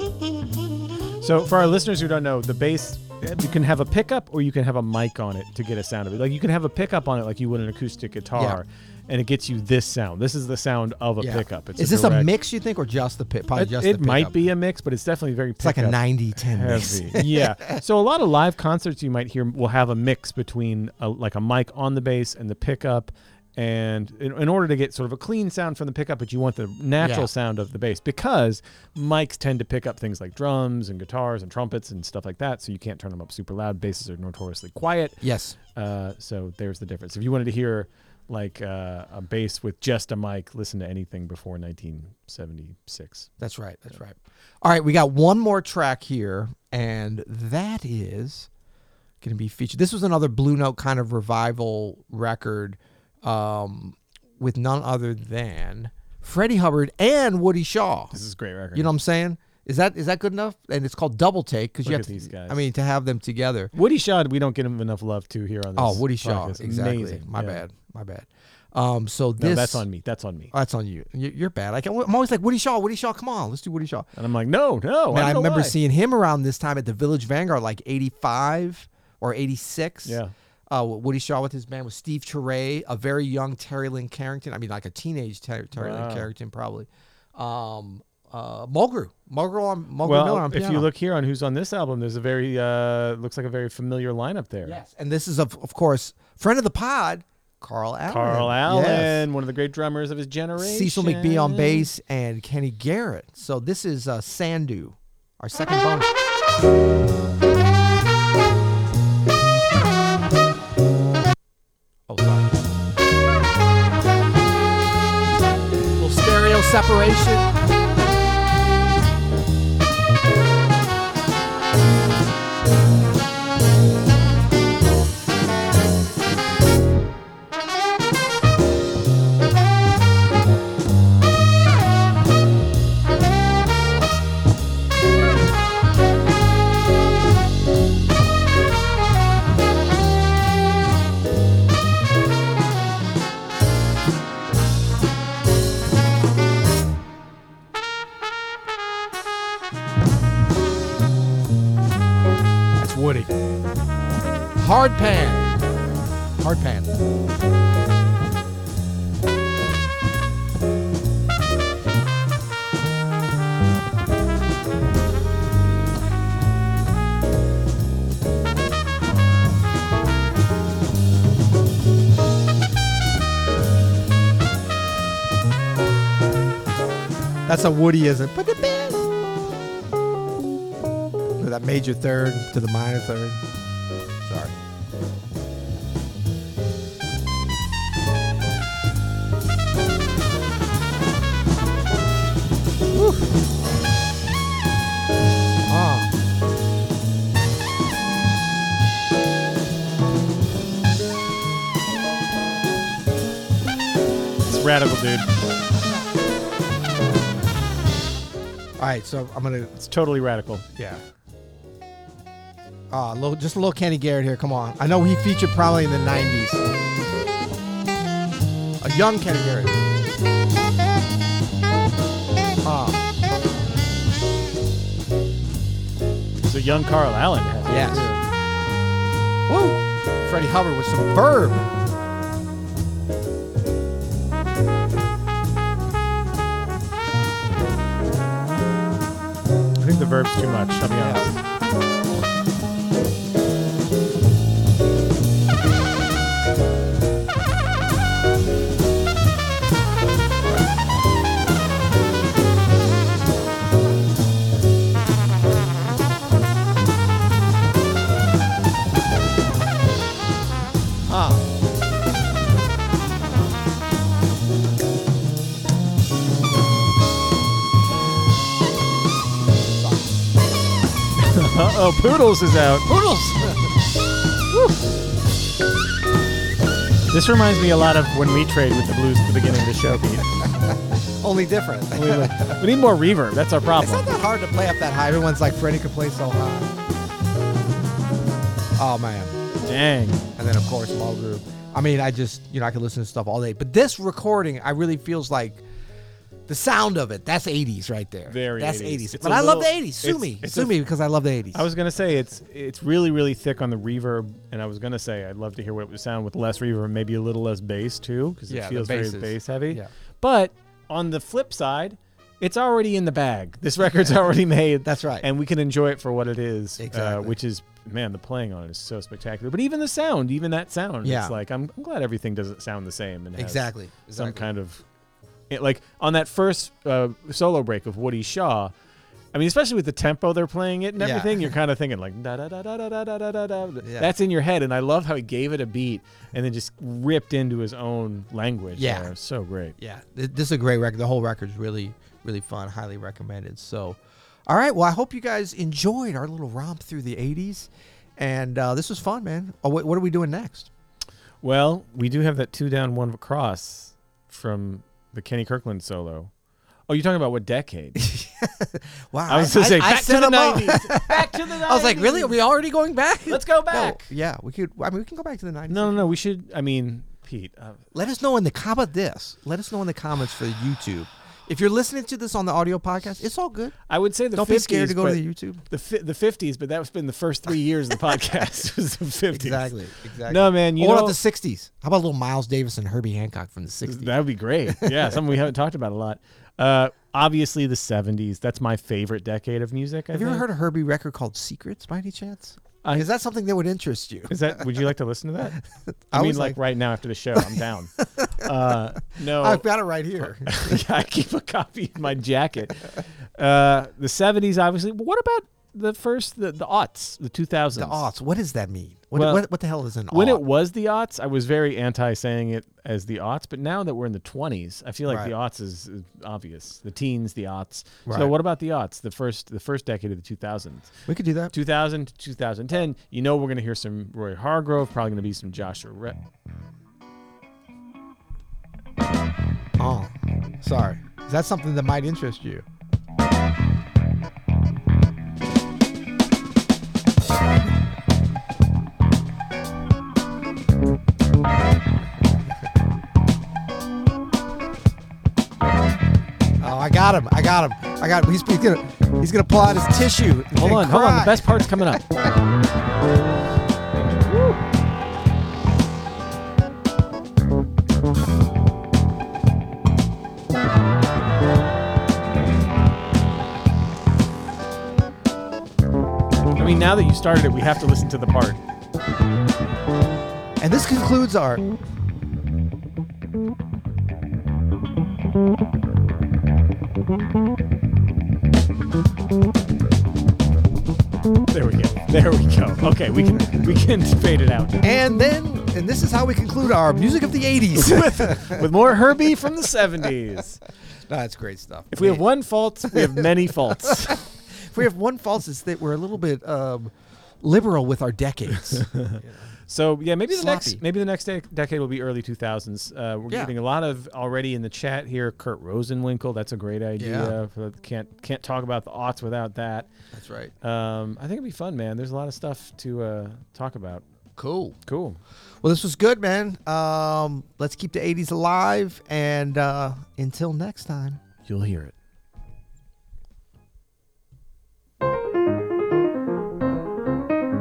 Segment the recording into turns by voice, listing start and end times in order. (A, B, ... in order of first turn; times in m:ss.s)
0:01.2-0:12.3 A
0:11.2-0:14.3 B
0:13.5-0:43.3 A
0:15.6-0:17.8 B
0:27.0-0:27.3 B
0:35.2-0:35.6 B
0:43.4-0:48.5 B
0:49.2-0:58.2 B
0:58.1-0:58.9 A
0:58.7-1:03.7 B
1:01.8-1:02.6 A
1:03.7-1:07.6 A
1:05.8-1:09.8 B
1:09.4-1:10.5 A
1:10.5-1:14.1 B
1:14.1-1:15.8 A
1:15.1-1:30.9 B
1:20.0-1:20.3 A
1:25.8-1:26.3 A
1:30.0-1:34.8 A
1:34.6-1:39.2 B
1:38.1-1:41.9 A
1:40.6-1:46.1 B
1:52.1-1:52.6 B
1:56.0-1:57.5 B
2:32.8-2:33.3 B
2:34.6-2:35.6 B
2:36.4-2:36.9 B
2:57.4-2:59.1 B
3:01.4-3:03.4 B
3:04.2-3:04.5 B
3:12.9-3:13.3 B
3:15.7-3:16.1 B
3:24.4-3:25.3 A
3:28.8-3:29.7 B
3:29.8-3:30.6 A
3:30.8-3:31.0 B
3:32.9-3:36.6 B
3:38.8-3:39.8 B
3:42.6-3:43.0 B
3:46.4-3:48.2 A
3:47.7-3:48.1 B
3:49.5-3:51.7 B
3:59.8-4:01.3 A
4:01.0-4:01.3 B
4:21.1-4:21.4 B
4:29.8-4:30.1 B
4:31.2-4:32.9 A
4:32.8-4:33.7 B
4:37.1-4:40.2 A
4:40.3-4:42.6 B
4:41.9-4:44.2 A
4:43.8-4:46.7 B
4:48.8-4:49.4 B
4:49.6-4:50.3 A
4:50.4-4:55.6 B
4:56.5-5:01.6 B
4:58.3-5:00.8 A
5:01.5-5:24.8 A
5:08.5-5:09.9 B
5:14.8-5:15.3 B
5:16.8-5:17.3 B
5:21.0-5:21.4 B
5:23.4-5:24.4 B
5:25.5-5:28.7 A
5:29.3-5:39.7 A
5:31.0-5:31.5 B
5:33.8-5:34.1 B
5:38.8-5:39.1 B
5:39.8-5:50.7 B
5:51.4-5:56.3 A
5:56.9-5:58.0 A
5:58.0-6:06.0 B
5:59.3-6:02.4 A
6:03.3-6:04.1 A
6:05.7-6:07.8 A
6:07.9-6:13.8 B
6:13.9-6:19.7 A
6:14.3-6:15.6 B
6:19.3-6:24.1 B
6:20.2-6:21.2 A
6:23.8-6:30.4 A
6:24.6-6:25.2 B
6:30.1-6:34.6 B
6:34.3-6:35.6 A
6:35.7-6:36.6 B
6:36.1-6:39.6 A
6:37.5-6:38.5 B
6:39.4-6:40.8 B
6:40.2-6:48.1 A
6:47.8-6:50.4 B
6:49.1-6:49.4 A
6:50.1-7:01.0 A
6:55.1-6:55.3 B
6:58.0-6:58.3 B
7:01.1-7:01.5 B
7:01.5-7:06.2 A
7:09.8-7:12.6 B
7:26.6-7:32.0 B
7:30.5-7:32.1 A
7:34.1-7:34.6 A
7:46.6-7:48.6 A
7:50.6-7:51.7 B
8:01.5-8:04.9 A
8:04.8-8:08.7 B
8:07.7-8:10.6 A
8:11.0-8:12.2 B
8:11.9-8:14.2 A
8:12.9-8:19.5 B
8:18.8-8:29.9 A
8:20.3-8:20.8 B
8:27.0-8:27.3 B
8:30.1-8:30.5 B
8:30.6-8:34.0 A
8:34.4-8:34.8 B
8:34.8-8:35.2 A
8:35.6-8:41.2 B
8:41.4-8:41.9 A